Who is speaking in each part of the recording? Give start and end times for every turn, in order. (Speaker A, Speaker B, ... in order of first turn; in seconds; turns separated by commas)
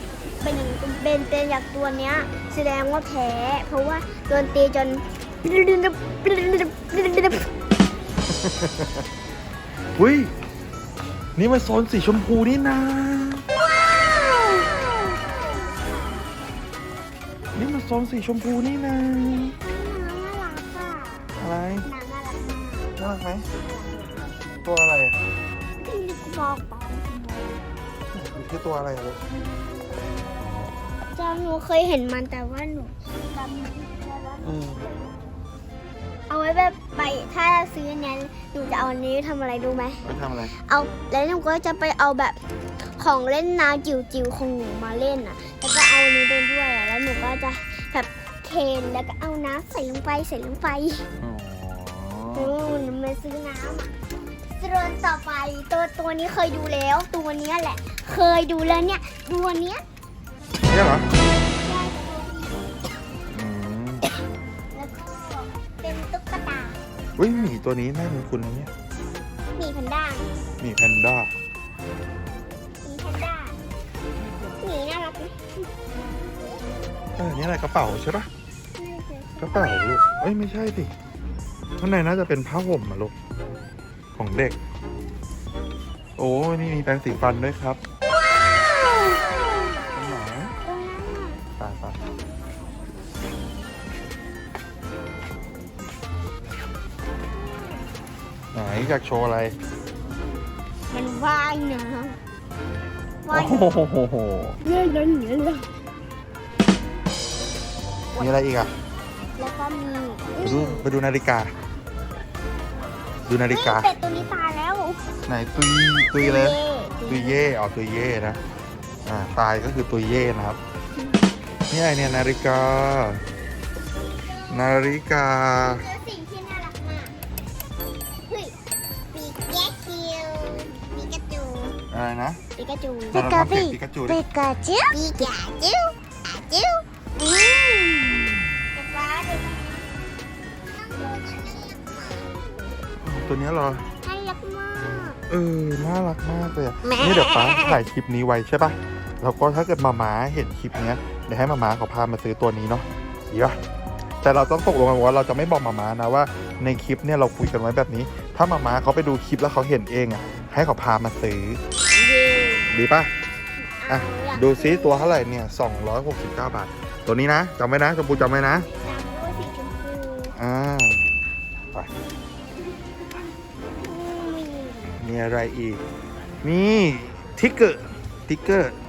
Speaker A: 0.4-7.5, Speaker B: 8.3-9.0, Speaker B: 9.9-10.3, Speaker B: 11.3-13.4, Speaker A: 14.2-16.3, Speaker B: 17.5-19.5, Speaker A: 19.5-22.9, Speaker B: 21.4-21.9, Speaker B: 23.0-23.5, Speaker A: 23.6-24.4, Speaker B: 24.6-25.2, Speaker A: 25.8-27.6, Speaker B: 28.1-29.2, Speaker A: 31.1-35.1, Speaker B: 34.5-34.8, Speaker A: 36.3-51.0, Speaker B: 40.0-40.5, Speaker B: 51.2-52.5, Speaker A: 52.3-53.9, Speaker A: 54.5-59.8, Speaker B: 60.7-61.1, Speaker A: 61.4-62.7, Speaker B: 63.3-64.0, Speaker A: 64.7-66.8, Speaker B: 67.2-68.7, Speaker A: 69.6-70.3, Speaker B: 70.6-71.3, Speaker A: 72.8-73.6, Speaker A: 74.6-75.4, Speaker B: 77.2-78.3, Speaker A: 78.8-80.2, Speaker B: 79.4-80.9, Speaker B: 81.8-83.1, Speaker B: 84.2-84.5, Speaker B: 86.2-87.8, Speaker A: 88.9-89.8, Speaker B: 89.9-90.5, Speaker A: 90.6-91.4, Speaker B: 91.6-92.0, Speaker A: 97.3-97.8, Speaker B: 98.5-99.5, Speaker A: 100.9-102.2, Speaker A: 103.2-103.8, Speaker B: 103.3-104.6, Speaker A: 104.6-105.7, Speaker B: 108.2-108.7, Speaker A: 109.4-110.9, Speaker B: 110.4-111.5, Speaker B: 113.3-113.9, Speaker A: 113.5-115.0, Speaker B: 115.3-118.4, Speaker A: 116.2-117.4, Speaker B: 119.0-120.6, Speaker B: 121.7-123.2, Speaker A: 124.2-124.9, Speaker B: 124.5-125.8, Speaker A: 125.5-127.1, Speaker A: 128.3-128.5, Speaker A: 129.1-131.8, Speaker B: 131.9-132.4, Speaker A: 132.6-139.8, Speaker B: 133.1-134.2, Speaker A: 140.7-142.8, Speaker B: 143.0-143.8, Speaker A: 144.0-145.2, Speaker B: 145.3-153.6, Speaker A: 146.8-147.8, Speaker B: 154.2-161.6, Speaker A: 161.9-162.7, Speaker B: 162.7-163.1, Speaker A: 163.8-165.2, Speaker B: 163.9-168.7, Speaker A: 168.7-170.3, Speaker B: 170.4-171.1, Speaker A: 173.8-175.0, Speaker B: 175.0-175.8, Speaker B: 176.4-178.8